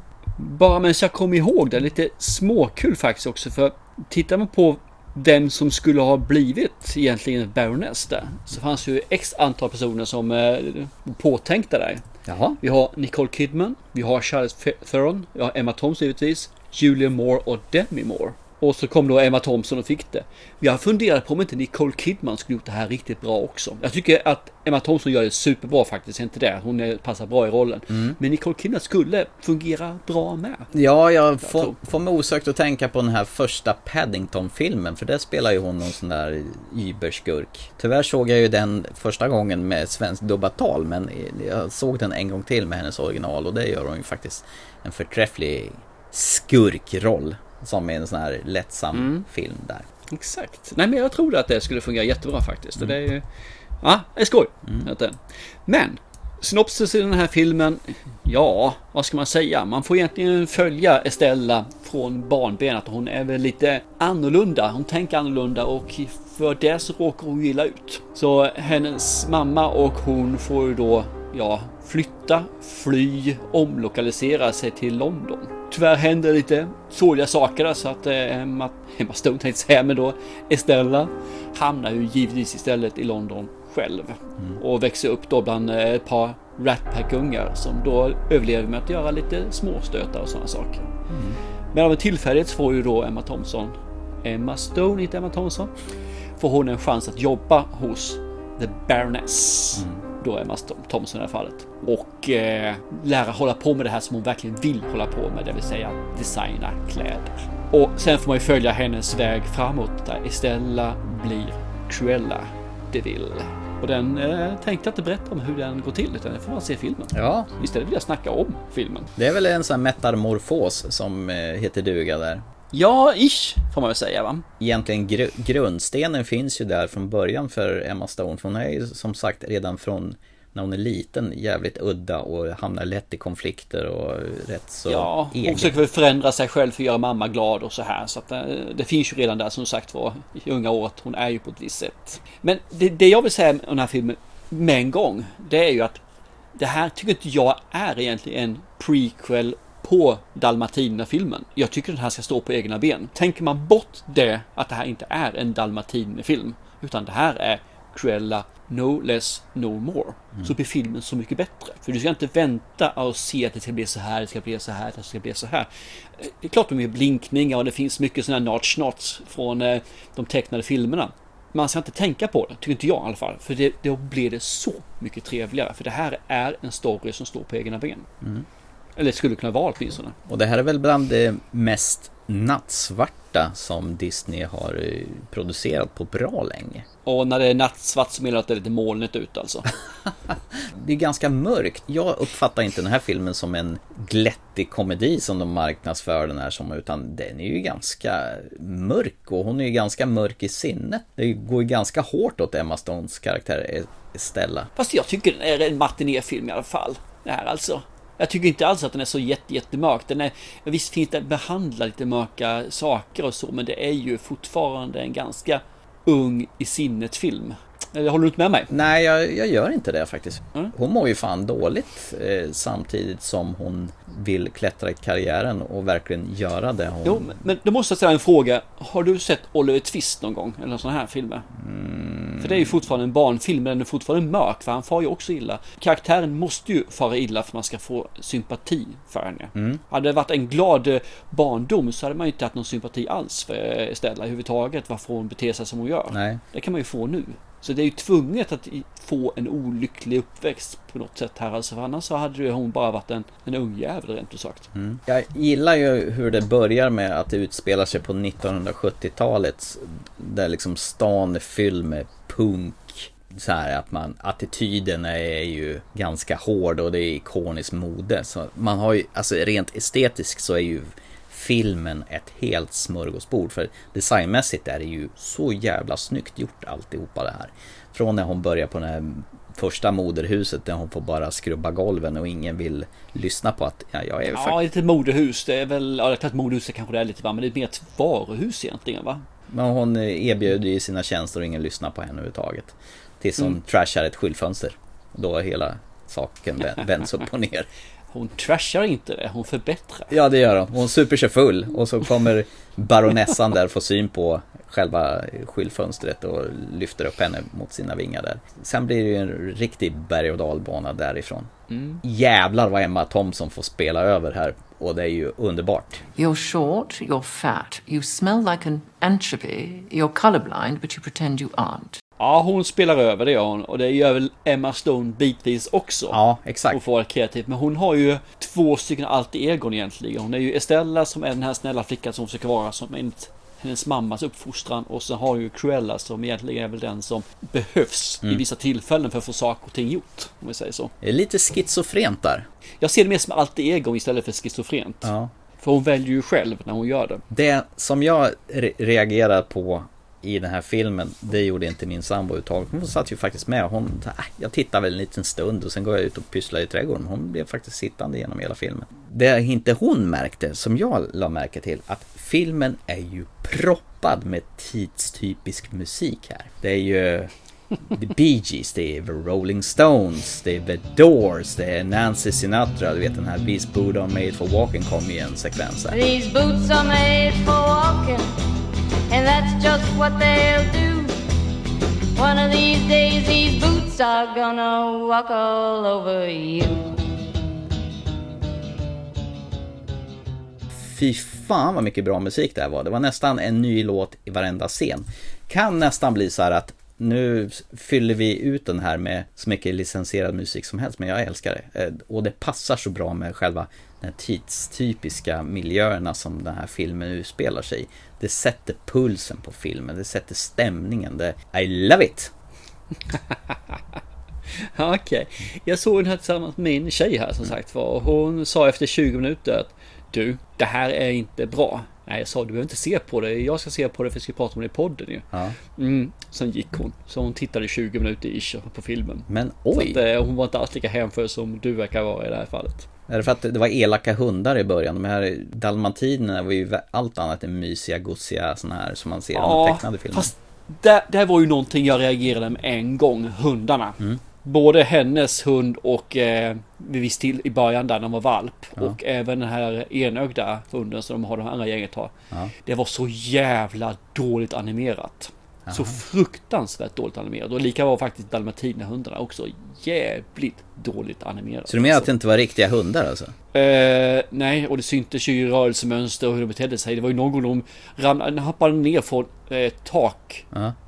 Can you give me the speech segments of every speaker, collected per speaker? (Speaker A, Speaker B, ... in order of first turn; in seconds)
Speaker A: 0.4-12.0, 12.6-30.7, 31.4-31.7, 48.9-49.2, 50.1-53.2, 53.8-90.9, 91.7-95.7, 96.4-119.1, 122.7-124.4, 134.9-146.0, 146.6-178.1, 179.0-180.2, 187.0-189.7, 204.8-218.7, 227.0-231.5, 232.4-254.7, 284.3-289.2, 298.1-300.1, 311.7-312.0, 322.2-326.2, 326.7-340.9, 342.8-347.2, 413.1-413.8, 414.7-432.9, 439.3-452.1, 452.6-462.1, 463.5-470.4
Speaker B: 12.2-12.6, 27.9-28.2, 30.7-49.9, 91.1-91.4, 117.1-117.5, 119.2-122.4, 124.6-135.8, 180.3-186.8, 190.6-204.7, 218.7-227.4, 231.6-232.8, 239.6-239.8, 246.1-246.4, 254.7-284.6, 289.5-297.7, 300.1-311.5, 312.0-316.0, 326.1-326.8, 341.0-342.4, 345.0-345.3, 347.3-367.3, 367.9-376.0, 390.9-412.3, 429.3-430.0, 433.1-440.3, 455.7-456.0, 461.7-463.3
Speaker C: 316.1-322.0
Speaker D: 375.9-378.3, 379.1-381.1, 382.1-386.8